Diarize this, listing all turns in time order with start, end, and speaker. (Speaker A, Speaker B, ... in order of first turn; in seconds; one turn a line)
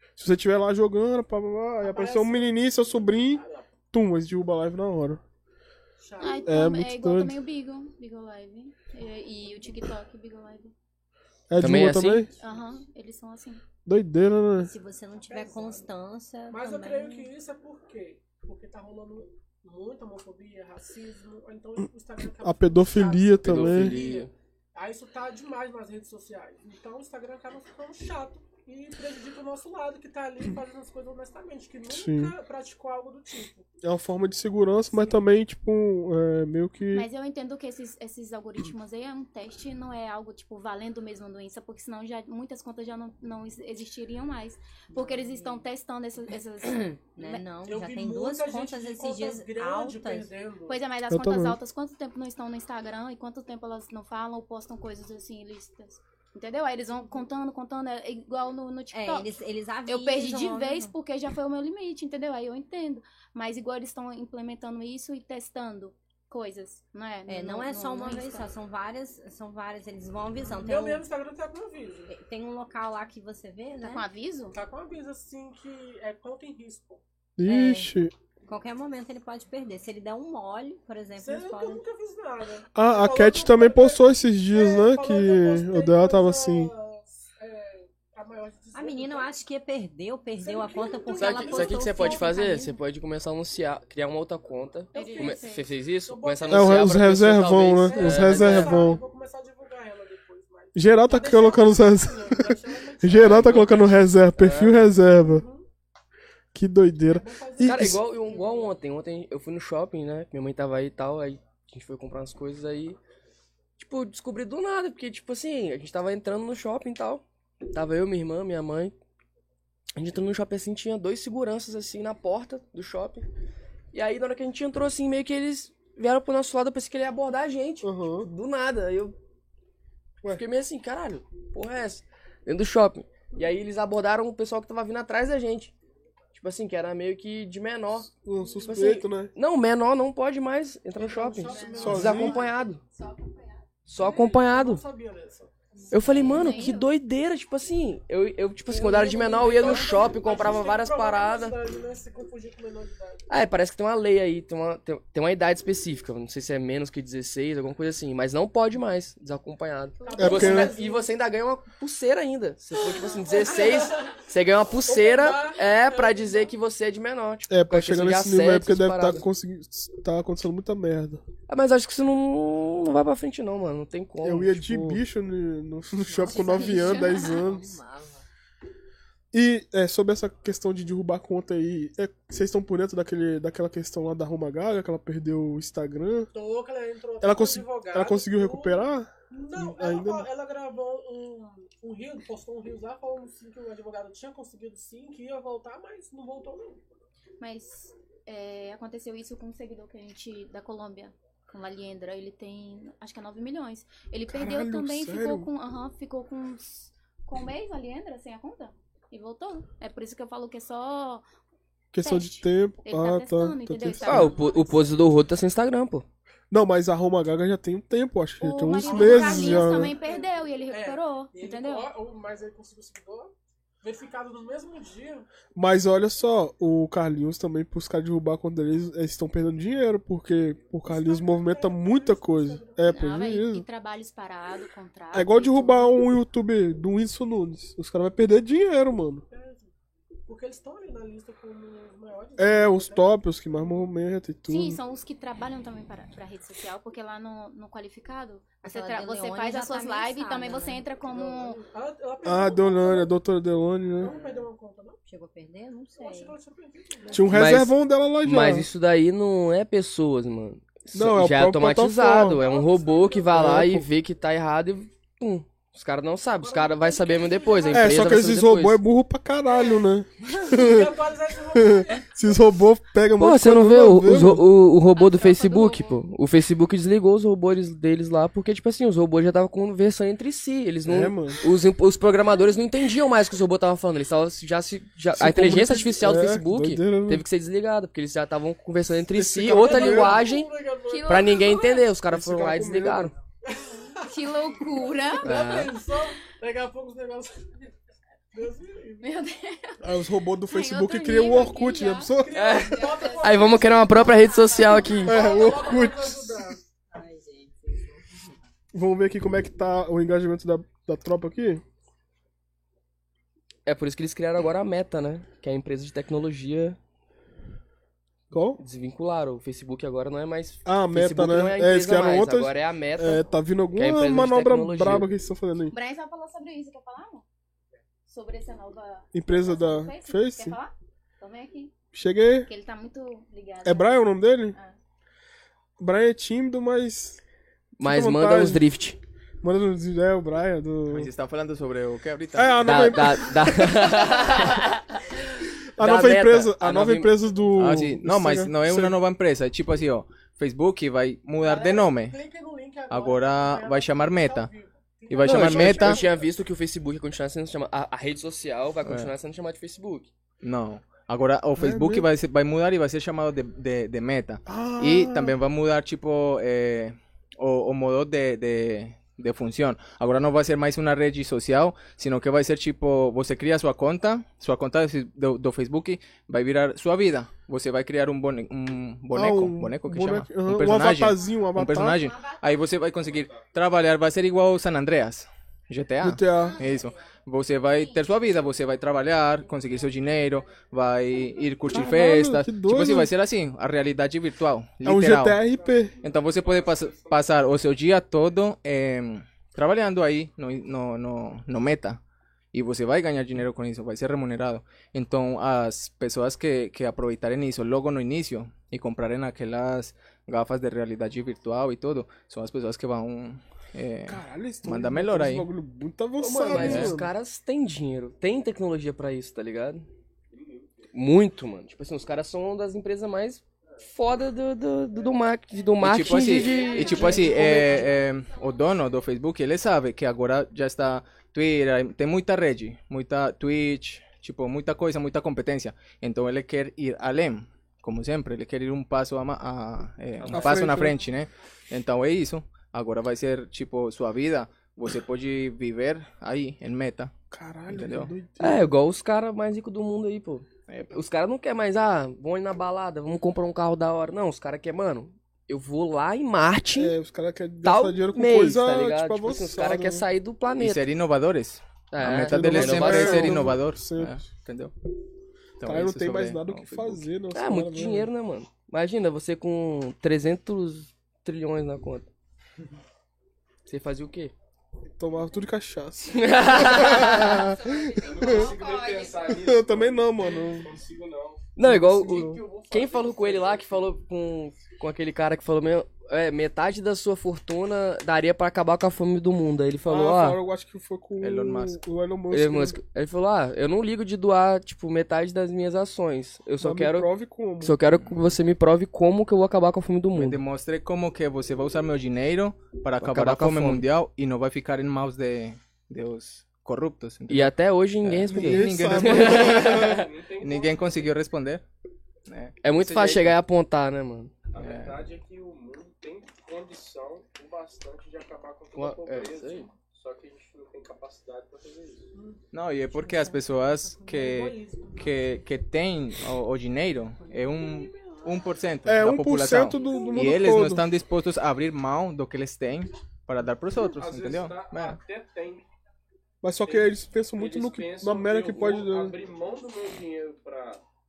Speaker A: 0.2-5.2
Speaker B: 1.8-3.7
Speaker B: 6.0-6.5
Speaker C: 6.2-10.7
Speaker A: 6.5-7.3
Speaker A: 11.5-12.3
Speaker D: 11.6-12.3
Speaker C: 12.4-13.6
Speaker A: 13.8-14.7
Speaker E: 14.6-17.3
Speaker B: 15.2-15.9
Speaker B: 16.5-33.6
Speaker A: 22.4-24.0
Speaker D: 23.4-24.3
Speaker A: 31.9-32.3
Speaker A: 33.8-37.1
Speaker B: 34.9-35.2
Speaker C: 36.9-47.5
Speaker E: 44.9-45.7
Speaker E: 47.1-50.3
Speaker B: 47.6-50.8
Speaker C: 50.7-59.3
Speaker A: 51.1-51.6
Speaker E: 58.9-60.9
Speaker C: 59.9-68.5
Speaker E: 67.3-71.1
Speaker B: 70.5-72.1
Speaker E: 72.1-74.0
Speaker C: 73.8-74.5
Speaker B: 74.5-77.0
Speaker A: 77.4-78.1
Speaker E: 77.5-77.9
Speaker E: 78.5-81.8
Speaker B: 81.2-89.3
Speaker A: 82.7-86.7
Speaker E: 88.7-92.7
Speaker B: 90.4-92.3
Speaker D: 91.1-98.9
Speaker B: 94.9-97.0
Speaker C: 94.9-95.7
Speaker A: 96.5-99.0
Speaker B: 97.8-104.1
Speaker A: 100.7-105.4
Speaker D: 103.2-103.8
Speaker D: 104.3-105.0
Speaker B: 105.2-105.6
Speaker A: 106.5-108.0
Speaker B: 107.0-108.7
Speaker D: 107.6-113.0
Speaker D: 113.8-118.9
Speaker D: 120.0-123.2
Speaker D: 123.9-129.2
Speaker A: 127.8-128.3
Speaker D: 130.3-135.7
Speaker D: 136.3-138.1
Speaker A: 138.0-139.3
Speaker D: 138.7-142.8
Speaker B: 138.7-139.0
Speaker B: 140.9-142.5
Speaker F: 141.4-143.7
Speaker A: 141.8-142.4
Speaker D: 143.8-144.8
Speaker B: 144.0-146.6
Speaker F: 145.7-146.2
Speaker D: 145.9-151.6
Speaker C: 146.2-146.9
Speaker B: 148.7-153.2
Speaker D: 153.3-169.2
Speaker B: 160.0-161.1
Speaker C: 160.0-160.3
Speaker A: 160.2-160.7
Speaker B: 162.9-164.2
Speaker B: 164.8-166.5
Speaker A: 167.5-171.2
Speaker D: 171.5-175.0
Speaker A: 174.2-177.8
Speaker E: 176.0-178.2
Speaker C: 176.3-177.4
Speaker A: 179.3-186.3
Speaker B: 186.3-196.8
Speaker A: 187.2-190.3
Speaker C: 197.4-211.2
Speaker A: 204.3-205.5
Speaker A: 211.9-214.3
Speaker C: 212.0-214.9
Speaker D: 214.0-216.0
Speaker A: 216.5-219.9
Speaker C: 218.4-221.9
Speaker B: 218.7-225.3
Speaker A: 225.5-233.6
Speaker B: 230.8-232.9
Speaker C: 232.9-235.9
Speaker A: 235.1-239.2
Speaker B: 239.3-239.7
Speaker B: 240.3-243.1
Speaker A: 242.4-244.8
Speaker C: 244.5-251.6
Speaker E: 248.6-250.8
Speaker B: 251.0-253.1
Speaker A: 252.2-254.1
Speaker B: 253.9-255.0
Speaker E: 254.0-254.5
Speaker E: 255.1-256.3
Speaker B: 256.0-257.4
Speaker A: 257.1-258.7
Speaker D: 257.3-268.8
Speaker A: 260.9-262.4
Speaker B: 262.3-263.4
Speaker A: 263.3-263.9
Speaker B: 266.4-268.1
Speaker A: 267.7-270.9
Speaker B: 269.5-269.9
Speaker B: 270.4-272.4
Speaker A: 271.5-274.4
Speaker D: 273.2-290.5
Speaker C: 274.9-276.0
Speaker A: 280.8-281.4
Speaker A: 285.1-287.2
Speaker A: 289.1-290.2
Speaker B: 289.5-291.7
Speaker C: 290.9-291.9
Speaker D: 291.1-293.1
Speaker A: 292.1-293.1
Speaker B: 293.4-294.1
Speaker C: 294.0-295.3
Speaker B: 294.7-297.4
Speaker D: 295.2-295.8
Speaker B: 298.3-299.1
Speaker C: 299.0-299.8
Speaker A: 299.8-302.4
Speaker C: 300.5-303.4
Speaker B: 302.2-306.6
Speaker D: 302.3-305.2
Speaker C: 304.1-305.1
Speaker A: 305.1-306.6
Speaker E: 306.9-308.3
Speaker A: 308.7-311.6
Speaker D: 313.6-316.8
Speaker A: 318.3-318.6
Speaker D: 318.6-325.1
Speaker A: 320.6-325.7
Speaker C: 325.7-327.2
Speaker C: 328.1-331.7
Speaker A: 329.1-330.6
Speaker A: 331.9-332.5
Speaker C: 332.4-334.7
Speaker A: 333.6-334.6
Speaker A: 335.8-337.2
Speaker D: 337.8-339.0
Speaker A: 337.8-338.6
Speaker A: 339.4-341.1
Speaker G: 340.9-343.4
Speaker A: 342.3-344.1
Speaker D: 342.6-345.0
Speaker A: 345.8-348.9
Speaker D: 345.8-347.2
Speaker G: 347.6-352.2
Speaker B: 351.4-356.2
Speaker G: 352.9-354.5
Speaker G: 355.1-356.0
Speaker D: 355.2-360.1
Speaker G: 358.8-359.1
Speaker G: 360.4-395.4
Speaker A: 361.6-362.1
Speaker A: 364.4-365.4
Speaker A: 379.1-382.0
Speaker F: 382.0-382.6
Speaker H: 383.0-383.4
Speaker A: 386.0-386.6
Speaker F: 386.4-387.1
Speaker F: 389.5-391.5
Speaker A: 391.7-393.1
Speaker A: 394.8-395.9
Speaker H: 396.0-397.8
Speaker G: 396.0-402.0
Speaker G: 402.5-415.5
Speaker A: 414.1-417.1
Speaker D: 416.2-419.9
Speaker G: 416.5-416.9
Speaker H: 420.3-420.9
Speaker D: 420.9-427.9
Speaker G: 425.8-447.1
Speaker F: 426.0-429.0
Speaker C: 427.1-427.6
Speaker A: 440.3-441.0
Speaker A: 447.3-448.7
Speaker G: 447.7-448.1
Speaker D: 448.4-457.0
Speaker A: 456.7-460.1
Speaker D: 457.6-460.8
Speaker G: 460.6-464.7
Speaker D: 461.9-463.6
Speaker A: 462.3-464.3
Speaker G: 465.6-467.1
Speaker A: 465.6-468.1
Speaker D: 467.3-472.1
Speaker D: 473.6-474.3
Speaker A: 475.0-478.3
Speaker D: 476.1-477.5
Speaker F: 477.3-479.5
Speaker H: 477.9-483.9
Speaker A: 479.3-480.7
Speaker D: 481.6-490.4
Speaker A: 481.6-482.4
Speaker A: 489.9-492.8
Speaker G: 491.2-491.8
Speaker D: 492.3-497.1
Speaker A: 496.6-497.8
Speaker D: 497.6-500.4
Speaker G: 497.9-498.3
Speaker G: 500.1-511.6
Speaker D: 503.0-503.9
Speaker D: 507.3-510.1
Speaker A: 508.3-510.0
Speaker H: 509.7-511.1
Speaker G: 512.3-513.4
Speaker D: 512.6-514.4
Speaker H: 514.5-522.1
Speaker G: 514.6-515.0
Speaker D: 518.7-519.7
Speaker B: 522.1-522.4
Speaker G: 522.5-535.0
Speaker B: 523.9-525.4
Speaker B: 527.2-528.6
Speaker A: 528.8-530.9
Speaker B: 529.7-530.5
Speaker H: 533.8-535.7
Speaker A: 536.4-539.2
Speaker H: 536.6-540.8